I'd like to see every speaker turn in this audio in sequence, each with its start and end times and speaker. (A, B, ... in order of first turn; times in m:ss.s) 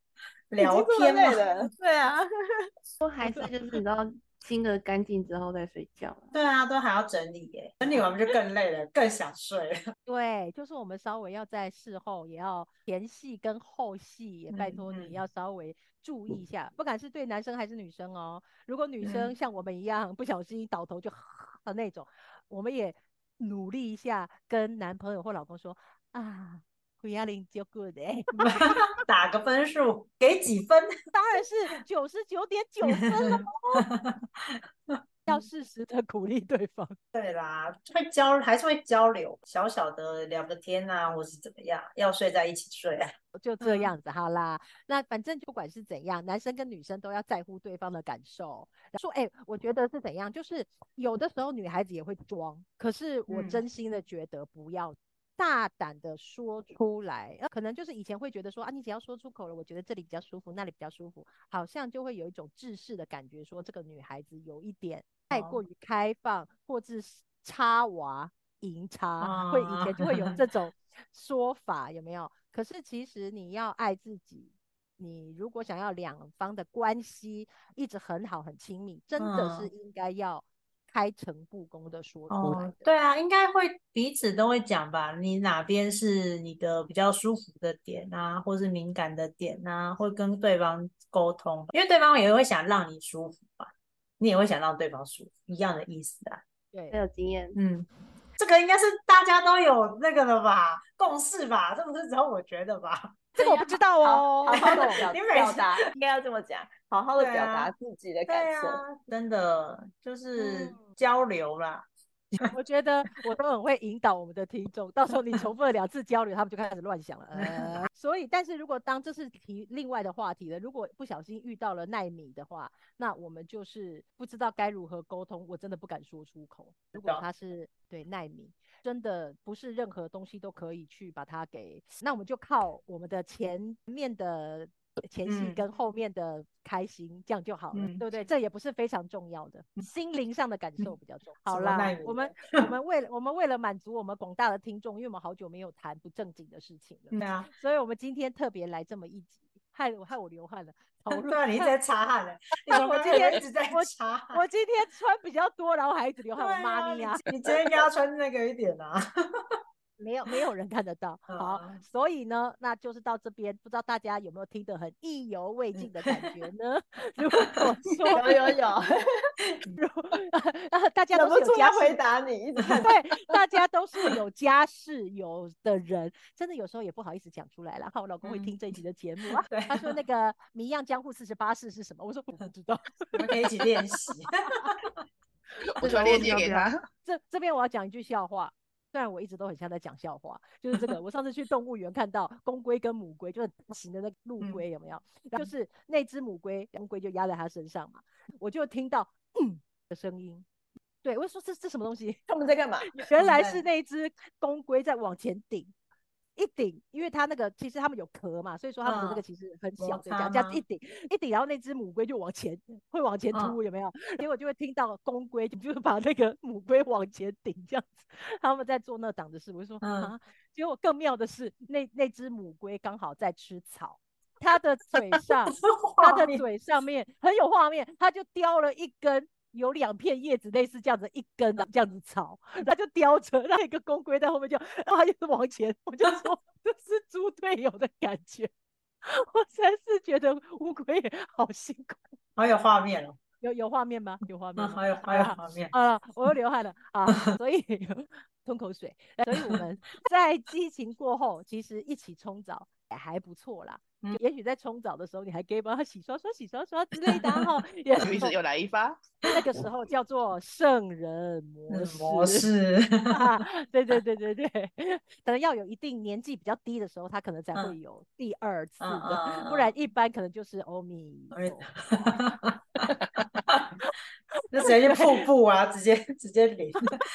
0:00.5-0:01.4 A
0:00.6-0:02.7 B
0:03.0-0:06.3 C
0:06.3-0:09.8 A
0:10.1-0:29.0 D
0:14.5-0:15.2 A
0:19.0-0:19.3 A
0:28.4-0:30.9 A
0:31.1-0:33.9 D
0:32.9-0:35.4 A
0:35.3-0:37.0 D
0:37.1-0:43.9 A
0:43.4-1:22.8 D
0:53.3-0:53.6 A
1:05.3-1:05.6 A
1:09.2-1:10.4 A
1:19.2-1:19.7 A
1:22.3-1:36.4 A
1:36.7-1:37.0 D
1:36.9-1:37.6 C
1:37.5-1:43.3 A
1:43.4-1:45.0 D
1:43.4-1:48.8 B
1:44.5-1:45.7 A
1:47.2-1:47.7 A
1:48.3-1:52.4 A
1:50.4-1:50.7 D
1:52.4-2:31.7 D
1:57.4-1:57.8 A
2:06.9-2:07.2 A
2:15.3-2:15.6 A
2:17.7-2:18.0 A
2:21.5-2:22.7 A
2:27.1-2:27.5 A
2:31.1-2:34.4 A
2:32.6-2:37.2 D
2:36.4-2:39.6 A
2:37.3-2:37.6 B
2:40.0-2:48.3 D
2:41.3-2:41.8 A
2:45.8-2:46.5 A
2:48.1-2:49.3 B
2:49.8-2:52.0 D
2:51.1-2:52.9 B
2:52.8-3:03.4 D
2:58.2-2:58.6 A
2:59.5-2:59.9 A
3:03.1-3:04.9 A
3:05.6-3:06.8 E
3:05.8-3:06.7 C
3:06.0-3:06.3 D
3:07.0-3:20.4 D
3:21.0-3:22.2 D
3:22.3-3:23.0 B
3:22.9-3:25.7 D
3:23.1-3:23.6 A
3:26.4-3:58.5 D
3:28.8-3:29.2 A
3:29.8-3:30.6 A
3:39.8-3:40.1 A
3:45.5-3:46.4 A
3:59.0-4:02.0 D
4:02.4-4:03.2 A
4:03.4-4:18.4 D
4:04.6-4:05.7 A
4:17.1-4:17.4 A
4:18.0-4:19.0 E
4:19.3-4:22.5 D
4:21.7-4:23.3 A
4:23.1-4:31.7 D
4:28.8-4:29.7 A
4:31.3-4:32.9 A
4:34.5-4:35.2 D
4:34.5-4:36.9 A